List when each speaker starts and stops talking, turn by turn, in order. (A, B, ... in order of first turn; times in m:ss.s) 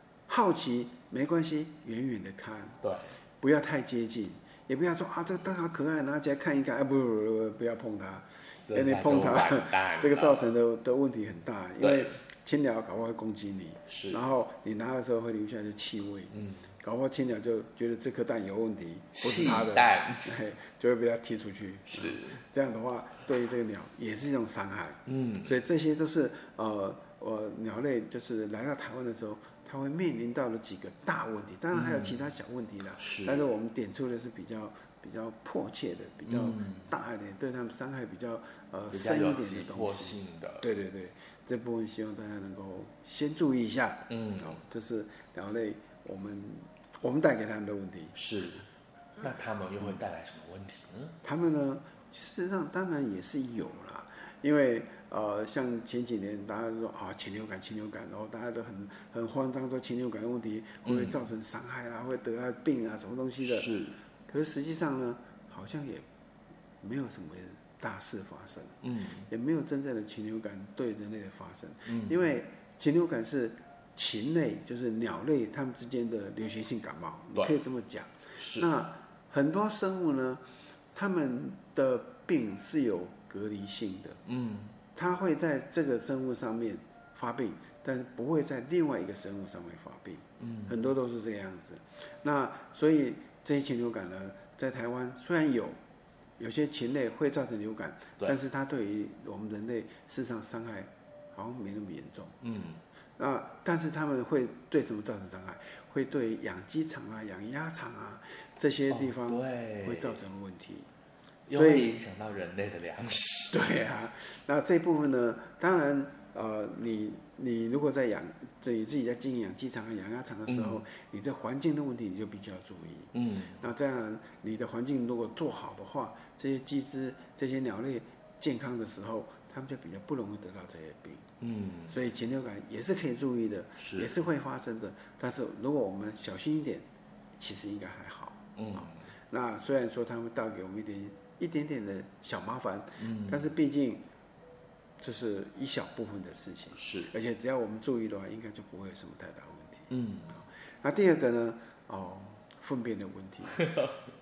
0:00.3-0:02.8 A
0:02.8-0:03.1 B
0:03.4-0:48.2 A
0:08.6-0:10.5 B
0:11.8-0:12.1 B
0:13.9-0:14.2 B
0:16.3-0:16.7 B
0:19.2-0:20.4 B
0:21.9-0:22.4 B
0:25.1-0:25.5 B
0:31.7-0:32.2 B
0:33.0-0:33.5 B
0:36.3-0:36.9 B
0:38.9-0:40.7 B
0:44.1-0:44.6 B
0:48.1-0:48.6 B
0:49.2-0:51.2 B
0:51.2-1:03.8 A
1:00.8-1:01.2 B
1:03.4-1:04.0 B
1:04.3-1:06.0 A
1:06.8-1:24.2 A
1:08.8-1:09.3 B
1:11.8-1:12.2 B
1:18.4-1:18.7 B
1:24.2-1:24.8 B
1:24.9-1:35.8 A
1:30.4-1:30.8 B
1:36.4-1:42.4 A
1:42.4-1:42.8 B
1:43.2-1:50.9 A
1:48.9-1:50.2 B
1:51.5-1:53.6 B
1:51.5-1:51.9 A
1:53.5-2:11.2 A
2:00.5-2:00.8 B
2:03.1-2:03.6 B
2:11.4-2:12.0 B
2:11.9-2:16.8 A
2:13.8-2:14.2 B
2:17.4-2:24.0 A
2:18.6-2:19.0 B
2:23.0-2:23.5 B
2:25.0-2:29.9 A
2:26.8-2:27.1 B
2:29.9-2:30.4 B
2:30.8-2:33.7 A
2:33.5-2:34.0 B